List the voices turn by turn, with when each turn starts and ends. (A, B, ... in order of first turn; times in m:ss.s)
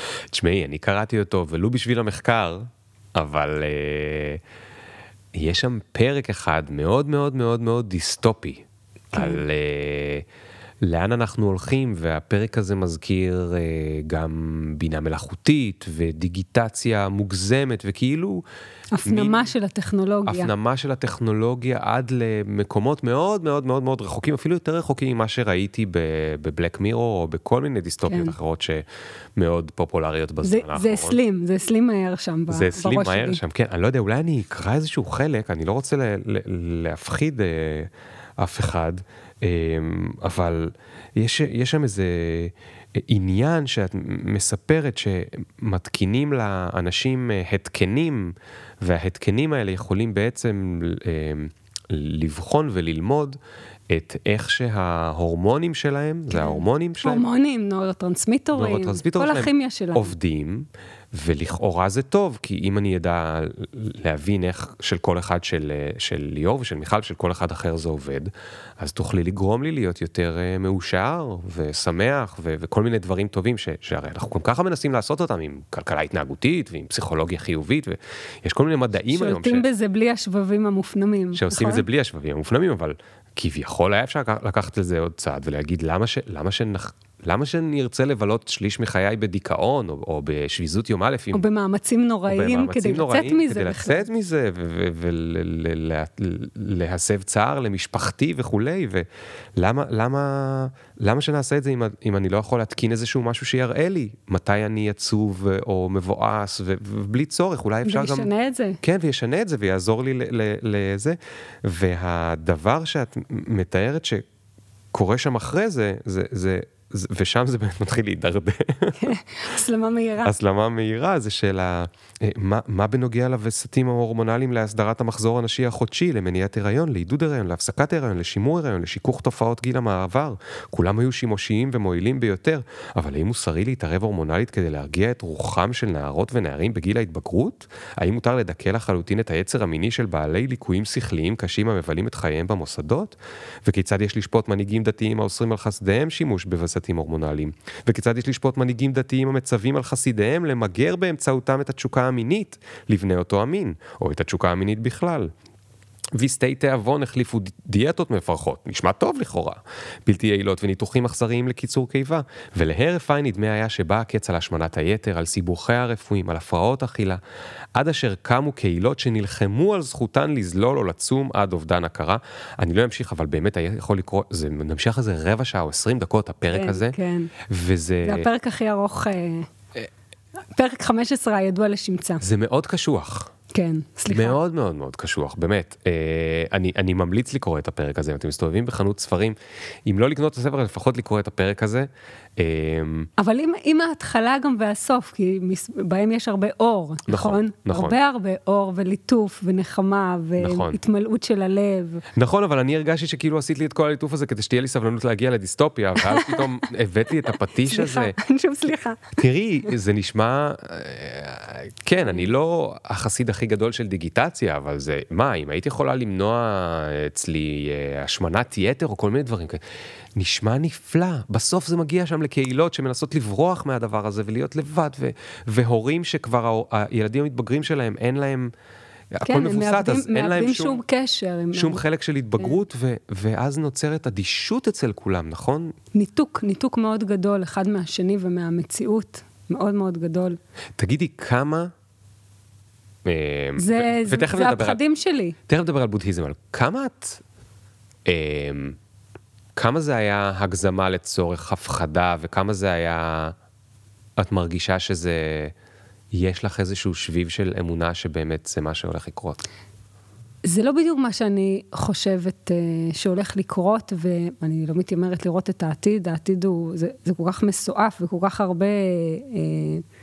0:00.3-0:04.4 A
0:05.3-0:10.2 A
0:09.1-0:09.4 B
0:10.8-0:18.4 A
0:18.9-0:20.5 B
0:19.0-0:19.5 A
0:20.3-0:28.8 A
0:28.1-0:28.4 B
0:29.4-0:31.2 A
0:30.4-0:33.4 B
0:32.5-0:53.4 A
0:53.9-0:57.2 A
0:56.3-1:00.1 B
0:58.6-1:19.7 A
1:19.0-1:21.9 B
1:21.3-1:31.4 A
1:31.3-1:34.0 B
1:32.3-1:48.3 A
1:47.8-1:48.8 B
1:48.8-1:54.2 A
1:54.9-1:59.1 A
1:59.0-2:00.3 B
2:00.2-2:35.3 A
2:36.2-2:47.2 A
2:47.8-2:57.0 A
2:56.5-2:57.3 B
2:57.5-2:58.3 A
2:58.0-2:59.5 B
3:00.5-3:02.2 B
3:02.2-3:03.3 A
3:03.5-3:04.4 B
3:04.1-3:13.1 A
3:13.2-3:22.0 B
3:17.1-3:18.0 A
3:20.4-3:20.8 A
3:22.1-3:28.2 A
3:26.0-3:26.6 B
3:27.7-3:29.2 B
3:29.2-3:39.6 A
3:40.2-3:48.5 A
3:49.1-3:50.8 A
3:49.2-3:51.8 B
3:51.5-3:55.7 A
3:55.9-4:00.4 B
4:00.8-4:01.7 A
4:03.0-4:04.8 A
4:03.6-4:05.4 B
4:05.5-4:07.2 A
4:08.1-4:08.8 A
4:09.6-4:13.4 A
4:14.2-4:15.5 A
4:16.1-4:19.4 A
4:20.4-4:29.8 B